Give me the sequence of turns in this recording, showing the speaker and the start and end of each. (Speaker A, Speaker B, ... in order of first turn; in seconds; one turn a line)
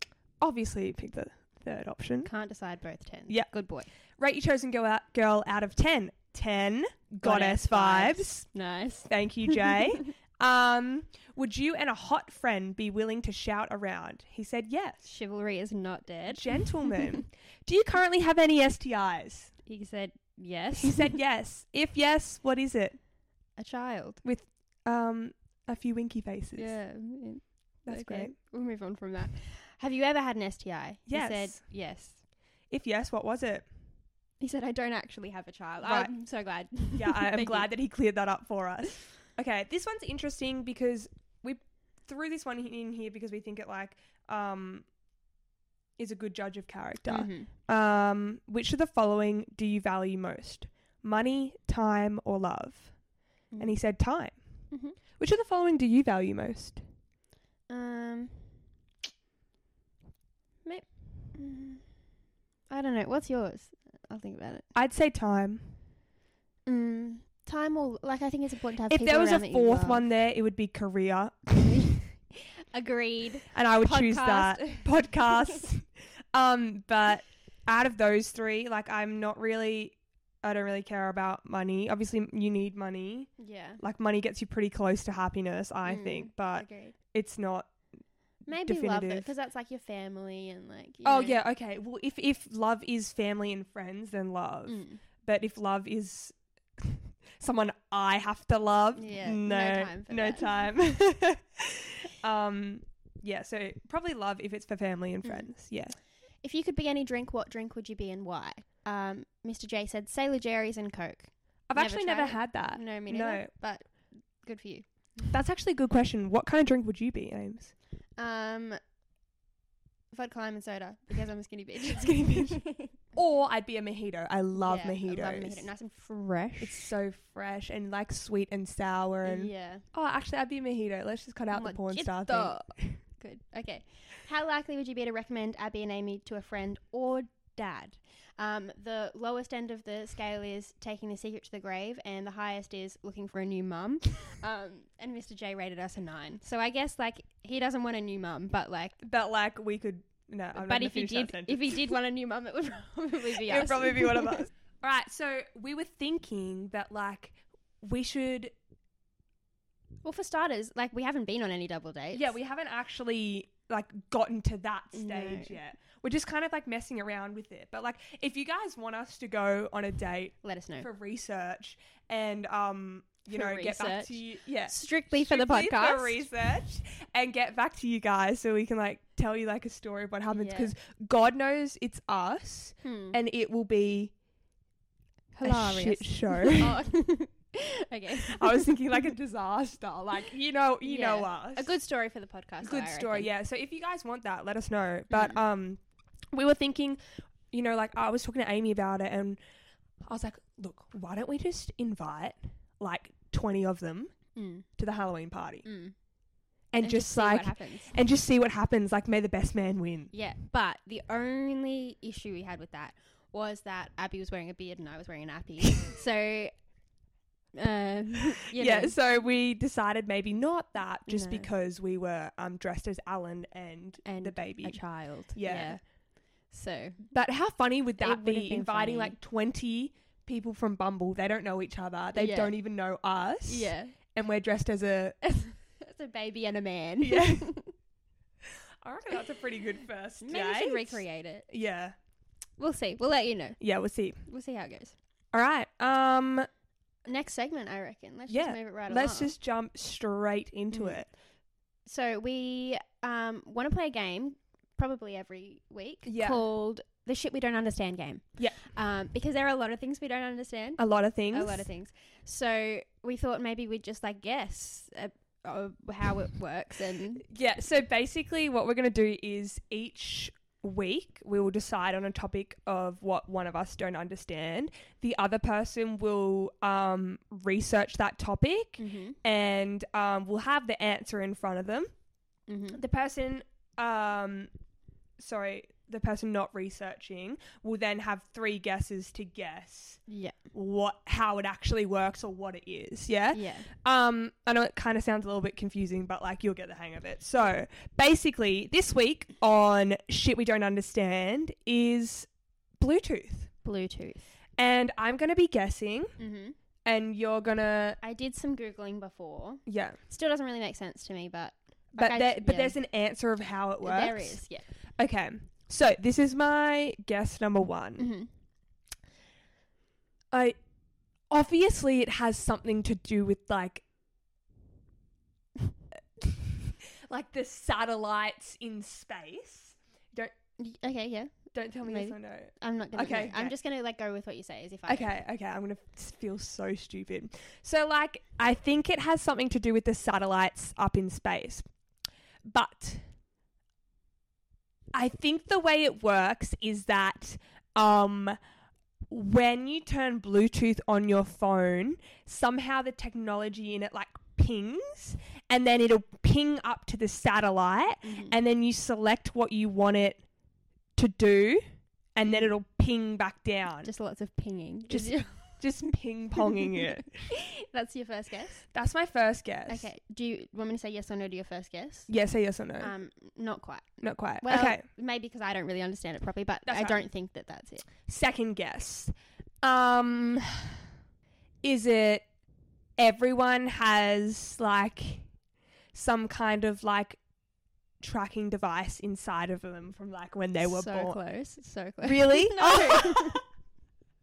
Speaker A: 0.4-2.3
Speaker B: 2.2-3.9
Speaker A: 4.2-8.4
Speaker B: 7.2-10.1
Speaker A: 9.1-15.0
Speaker B: 15.0-17.2
Speaker A: 16.3-19.5
Speaker B: 19.6-21.1
Speaker A: 20.8-23.0
Speaker B: 23.6-24.2
Speaker A: 24.2-26.8
Speaker B: 26.6-32.2
Speaker A: 27.9-28.3
Speaker A: 31.1-31.6
Speaker A: 32.7-33.6
Speaker B: 34.4-37.7
Speaker A: 35.8-36.1
Speaker A: 36.9-44.9
Speaker A: 46.0-52.9
Speaker B: 47.1-47.5
Speaker B: 53.5-53.8
Speaker A: 53.6-54.4
Speaker B: 54.7-55.0
Speaker A: 55.2-56.8
Speaker B: 57.7-58.5
Speaker B: 60.6-61.8
Speaker B: 62.7-64.7
Speaker A: 64.7-65.7
Speaker B: 66.7-70.0
Speaker A: 68.9-71.9
Speaker B: 71.6-74.9
Speaker A: 73.5-87.7
Speaker B: 83.4-83.8
Speaker B: 85.8-86.9
Speaker B: 88.5-91.4
Speaker A: 88.5-89.3
Speaker A: 91.0-106.0
Speaker B: 94.7-95.0
Speaker B: 98.9-100.6
Speaker B: 105.2-105.5
Speaker B: 106.4-115.3
Speaker A: 111.7-113.5
Speaker A: 115.3-117.7
Speaker B: 118.2-118.8
Speaker B: 120.1-122.9
Speaker A: 121.8-122.6
Speaker A: 123.1-125.6
Speaker B: 124.5-126.9
Speaker A: 126.6-133.0
Speaker B: 129.2-129.8
Speaker B: 131.5-149.0
Speaker A: 149.0-151.9
Speaker B: 150.5-154.5
Speaker A: 153.4-158.5
Speaker B: 160.0-162.3
Speaker A: 162.1-184.1
Speaker B: 164.9-165.6
Speaker B: 170.4-170.9
Speaker B: 173.3-176.2
Speaker B: 180.3-180.7
Speaker B: 182.8-183.2
Speaker B: 185.3-188.8
Speaker A: 185.4-186.8
Speaker A: 188.1-191.7
Speaker B: 190.8-193.3
Speaker A: 192.6-195.8
Speaker B: 195.1-195.4
Speaker A: 196.3-199.4
Speaker A: 200.0-204.1
Speaker B: 204.3-204.7
Speaker A: 204.8-205.6
Speaker B: 205.6-205.9
Speaker A: 206.7-210.1
Speaker B: 206.8-207.9
Speaker B: 210.1-216.5
Speaker B: 217.5-219.0
Speaker A: 218.5-225.8
Speaker B: 221.1-221.5
Speaker B: 224.0-225.8
Speaker B: 226.5-227.0
Speaker A: 227.1-235.2
Speaker B: 228.0-229.2
Speaker B: 232.1-232.6
Speaker B: 233.5-234.0
Speaker B: 235.2-237.7
Speaker A: 237.0-237.5
Speaker A: 238.8-241.9
Speaker B: 240.2-241.5
Speaker B: 242.6-243.6
Speaker A: 243.6-244.2
Speaker B: 244.2-244.9
Speaker A: 245.3-246.5
Speaker B: 247.1-249.3
Speaker A: 248.3-251.1
Speaker B: 250.7-251.0
Speaker B: 251.8-267.2
Speaker A: 256.0-256.4
Speaker A: 260.8-261.7
Speaker A: 267.2-281.9
Speaker B: 278.8-279.2
Speaker B: 282.5-282.8
Speaker A: 282.7-284.5
Speaker A: 285.2-290.0
Speaker B: 290.1-290.4
Speaker A: 290.5-302.3
Speaker B: 293.3-293.7
Speaker A: 302.8-303.5
Speaker B: 303.6-304.3
Speaker A: 304.6-306.1
Speaker B: 306.2-306.6
Speaker A: 306.8-308.0
Speaker B: 308.0-312.8
Speaker A: 309.6-310.0
Speaker A: 311.9-314.4
Speaker B: 313.8-314.7
Speaker A: 315.0-318.1
Speaker B: 318.0-318.3
Speaker A: 320.3-320.6
Speaker A: 321.3-323.8
Speaker A: 327.1-330.3
Speaker B: 330.6-335.2
Speaker A: 331.5-333.5
Speaker A: 334.9-341.6
Speaker A: 342.4-343.0
Speaker A: 344.9-348.4
Speaker A: 349.1-360.2
Speaker B: 358.0-358.4
Speaker A: 360.9-363.9
Speaker B: 363.8-365.9
Speaker A: 364.9-367.1
Speaker B: 366.5-368.6
Speaker A: 368.7-369.9
Speaker B: 369.7-372.1
Speaker A: 372.1-372.9
Speaker B: 372.8-373.9
Speaker A: 374.0-374.8
Speaker B: 374.4-377.9
Speaker A: 376.7-377.1
Speaker A: 378.1-380.8
Speaker A: 381.6-382.2
Speaker A: 383.0-385.3
Speaker A: 385.9-387.2
Speaker A: 388.0-391.2
Speaker B: 390.6-393.4
Speaker A: 392.0-393.4